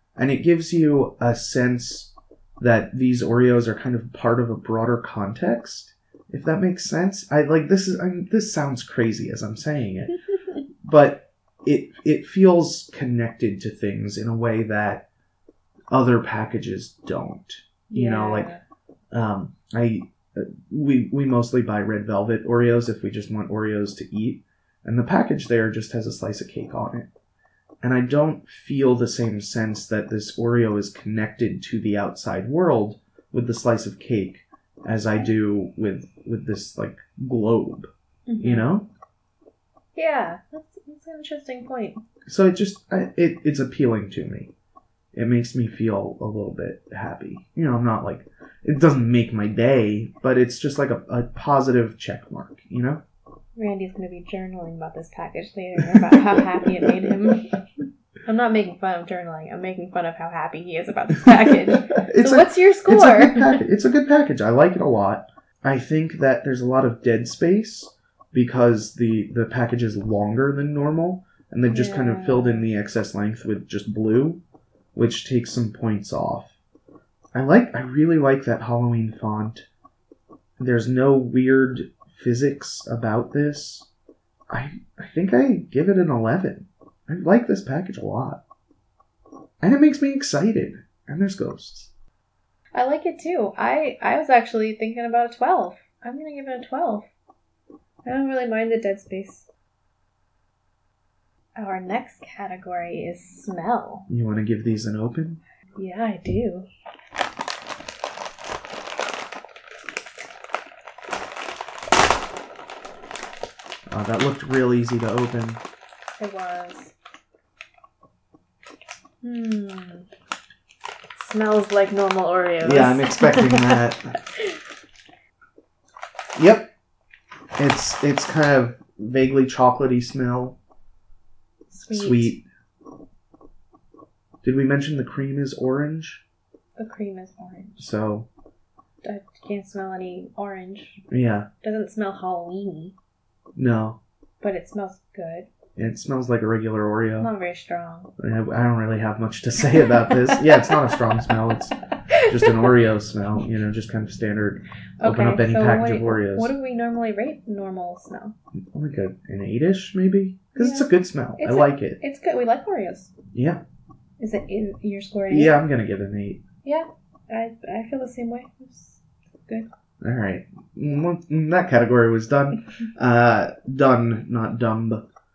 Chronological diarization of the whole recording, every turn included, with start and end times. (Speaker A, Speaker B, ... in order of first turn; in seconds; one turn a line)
Speaker A: 0.1-10.2
Speaker A: 10.8-15.1
Speaker A: 15.9-18.5
Speaker B: 17.9-18.6
Speaker A: 19.1-27.1
Speaker A: 27.8-38.9
Speaker B: 38.3-38.7
Speaker B: 40.0-42.0
Speaker A: 42.2-44.5
Speaker A: 45.1-53.0
Speaker B: 53.6-57.6
Speaker A: 55.9-57.4
Speaker B: 58.2-63.6
Speaker A: 61.2-74.4
Speaker B: 71.7-72.7
Speaker A: 74.9-76.6
Speaker A: 77.3-79.7
Speaker A: 80.6-83.9
Speaker A: 84.5-88.4
Speaker A: 89.6-91.9
Speaker B: 92.7-97.1
Speaker B: 98.0-99.5
Speaker B: 101.6-104.1
Speaker A: 104.1-105.4
Speaker B: 105.8-106.7
Speaker A: 113.9-115.6
Speaker B: 116.2-116.9
Speaker B: 119.2-120.1
Speaker B: 121.1-123.8
Speaker A: 122.6-124.2
Speaker A: 126.3-126.7
Speaker A: 127.6-130.6
Speaker B: 131.7-132.3
Speaker A: 131.9-132.4
Speaker A: 134.4-136.2
Speaker B: 136.8-137.8
Speaker A: 137.8-138.3
Speaker B: 139.0-141.0
Speaker A: 141.1-141.5
Speaker B: 141.6-142.9
Speaker A: 143.6-144.0
Speaker B: 144.4-145.5
Speaker A: 145.8-147.3
Speaker B: 147.2-148.1
Speaker A: 148.2-156.5
Speaker B: 149.8-151.3
Speaker B: 152.1-152.8
Speaker B: 155.0-158.3
Speaker A: 158.7-162.0
Speaker B: 160.6-163.1
Speaker A: 163.3-163.6
Speaker B: 164.2-165.6
Speaker A: 165.3-166.4
Speaker B: 166.6-169.7
Speaker A: 170.0-175.0